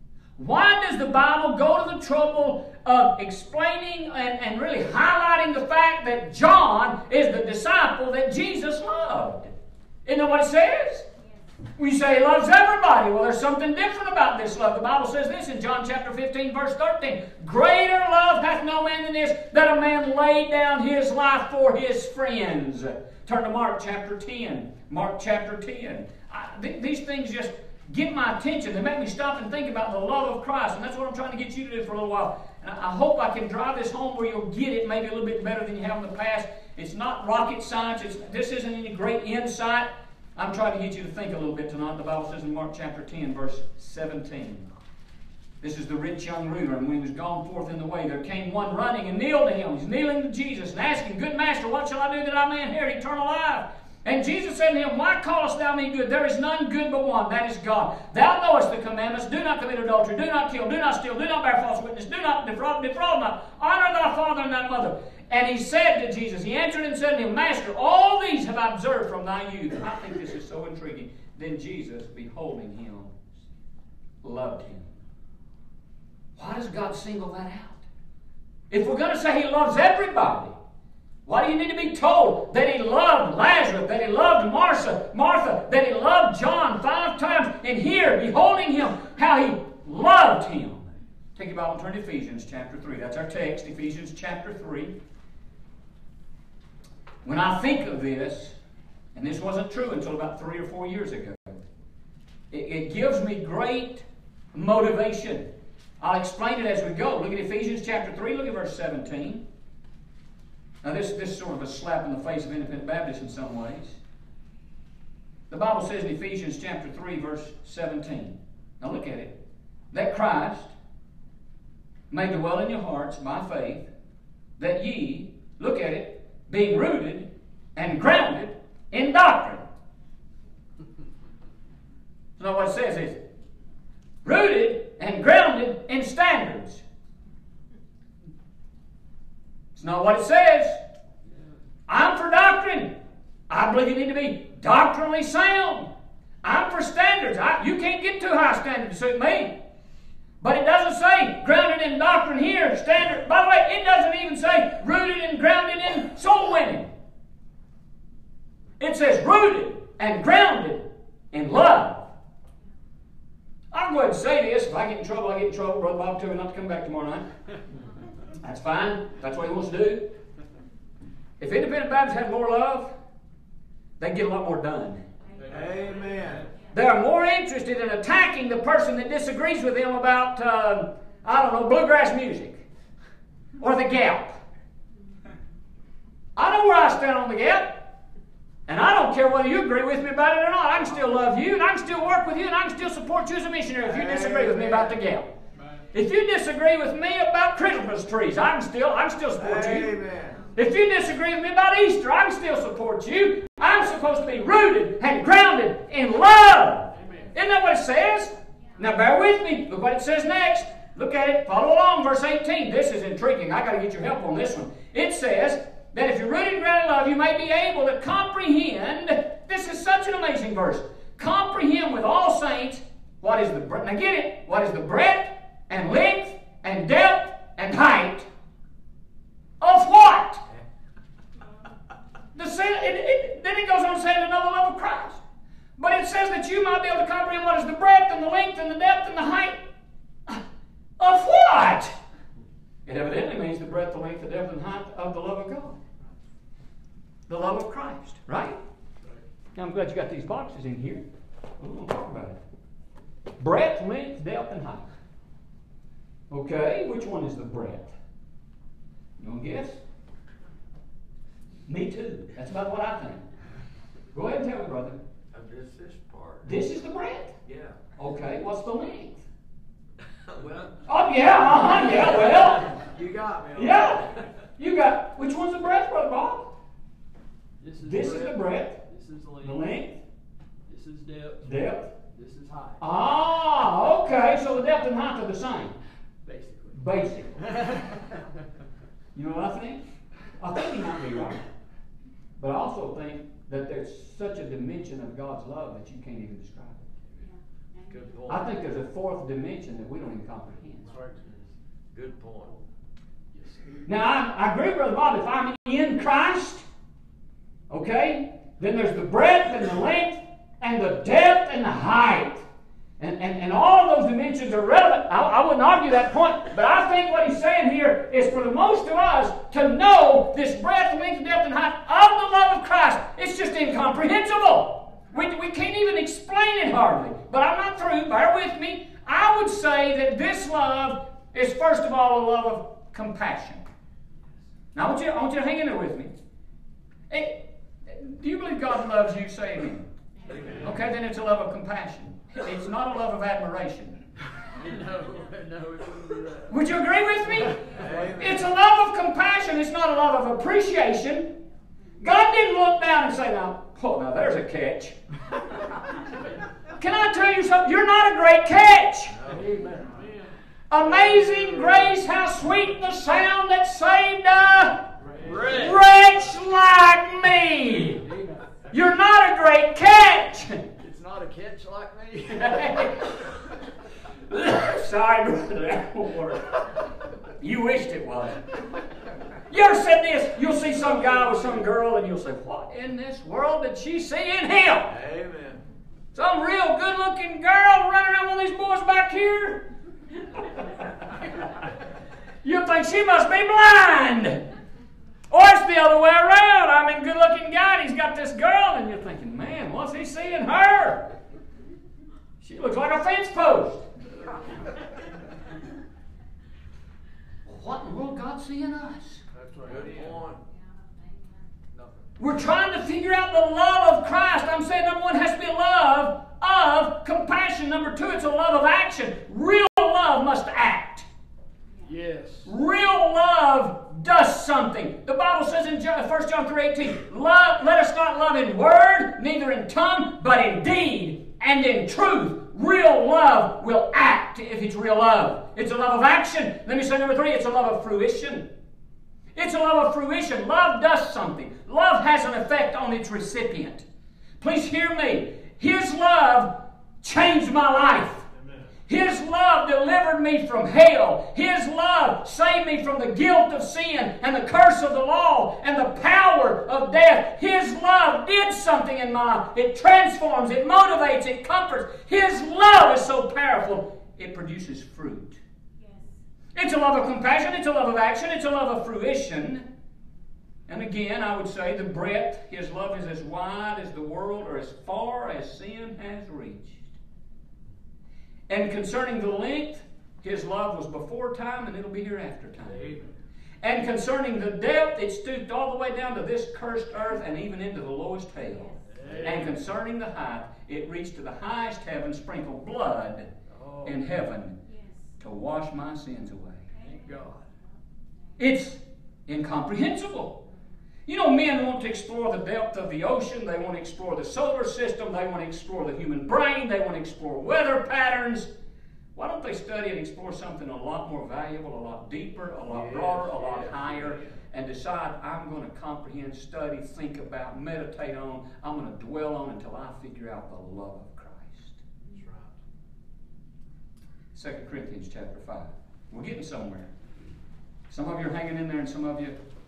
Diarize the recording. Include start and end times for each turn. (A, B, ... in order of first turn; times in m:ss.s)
0:00.4-0:09.5 A
0:10.0-0:11.1 A
0:11.8-0:44.7 A
0:45.6-1:13.2 A
1:14.2-1:14.9 A
1:16.4-1:17.8 A
1:18.7-1:20.6 A
1:21.2-1:34.9 A
1:37.2-1:38.6 A
1:39.2-1:41.6 A
1:42.5-1:45.5 A
1:46.0-1:49.4 A
1:50.8-1:54.0 A
1:55.5-1:59.4 A
1:59.9-2:00.7 A
2:02.1-2:03.9 A
2:04.6-2:09.6 A
2:12.4-2:13.2 A
2:14.2-2:16.8 A
2:19.8-2:20.8 A
2:21.9-2:23.0 A
2:23.5-2:25.9 A
2:26.4-2:29.6 A
2:30.4-2:36.9 A
2:38.8-2:42.1 A
2:43.7-2:47.3 A
2:48.4-2:50.1 A
2:51.4-2:52.9 A
2:54.0-2:55.0 A
2:55.4-2:56.5 B
2:56.7-3:02.6 A
3:03.6-3:04.4 A
3:06.4-3:07.8 A
3:08.7-3:15.3 A
3:13.8-3:15.0 B
3:15.9-3:19.9 A
3:19.4-3:20.5 B
3:20.6-3:48.3 A
3:27.0-3:27.3 C
3:49.6-3:50.4 A
3:52.4-3:55.2 A
3:55.8-3:59.6 A
4:01.0-4:01.9 A
4:02.9-4:05.8 A
4:07.3-4:08.6 A
4:09.6-4:11.1 A
4:11.6-4:12.4 A
4:13.4-4:14.9 A
4:16.3-4:18.0 A
4:19.2-4:19.8 A
4:21.7-4:23.3 A
4:24.1-4:25.0 A
4:25.3-4:26.6 B
4:26.4-4:27.4 A
4:27.5-4:27.7 B
4:28.0-4:29.2 A
4:30.3-4:30.7 B
4:30.9-4:32.8 A
4:31.8-4:34.0 B
4:33.6-4:36.5 A
4:37.6-4:39.6 C
4:37.8-4:38.8 A
4:39.4-4:40.0 A
4:40.7-4:42.8 C
4:41.4-4:41.9 A
4:42.8-4:45.8 A
4:46.2-4:46.8 C
4:46.7-4:47.4 A
4:47.4-4:48.0 C
4:49.2-4:49.8 A
4:50.4-4:51.4 A
4:52.4-4:56.9 A
4:57.9-4:58.4 B
4:58.3-5:00.9 A
5:00.9-5:01.4 B
5:01.9-5:02.6 B
5:03.3-5:03.9 C
5:03.8-5:06.7 A
5:07.7-5:12.4 A
5:13.0-5:33.6 A
5:34.8-5:36.1 A
5:37.1-5:39.9 A
5:40.4-5:44.0 A
5:44.6-5:46.5 C
5:46.5-5:51.4 A
5:47.7-5:48.5 B
5:52.0-5:55.0 A
5:56.8-5:59.2 A
5:59.1-5:59.5 B
5:59.3-6:00.3 C
6:00.7-6:08.1 A
6:05.0-6:05.8 C
6:08.0-6:08.5 C
6:08.7-6:10.7 A
6:10.8-6:13.0 C
6:12.3-6:13.1 A
6:14.3-6:18.5 A
6:19.5-6:24.9 A
6:24.9-6:25.6 B
6:26.1-6:29.7 A
6:30.4-6:30.8 A
6:32.4-6:34.4 A
6:35.3-6:41.1 A
6:42.4-6:43.9 A
6:47.5-6:49.2 A
6:49.3-6:50.2 C
6:49.6-6:50.4 B
6:51.7-6:52.1 C
6:52.2-7:01.1 A
7:01.9-7:02.5 C
7:02.4-7:18.5 A
7:19.4-7:23.8 A
7:24.4-7:28.3 A
7:28.9-7:45.4 A
7:46.6-7:49.7 A
7:50.7-7:57.0 A
7:58.5-8:03.0 A
8:02.7-8:03.1 C
8:03.6-8:13.3 A
8:08.9-8:09.6 B
8:13.8-8:14.6 A
8:15.2-8:16.7 A
8:16.8-8:17.5 C
8:18.4-8:20.4 A
8:21.1-8:28.5 A
8:29.2-8:41.8 A
8:32.7-8:34.3 B
8:44.3-8:46.9 A
8:47.9-8:49.4 A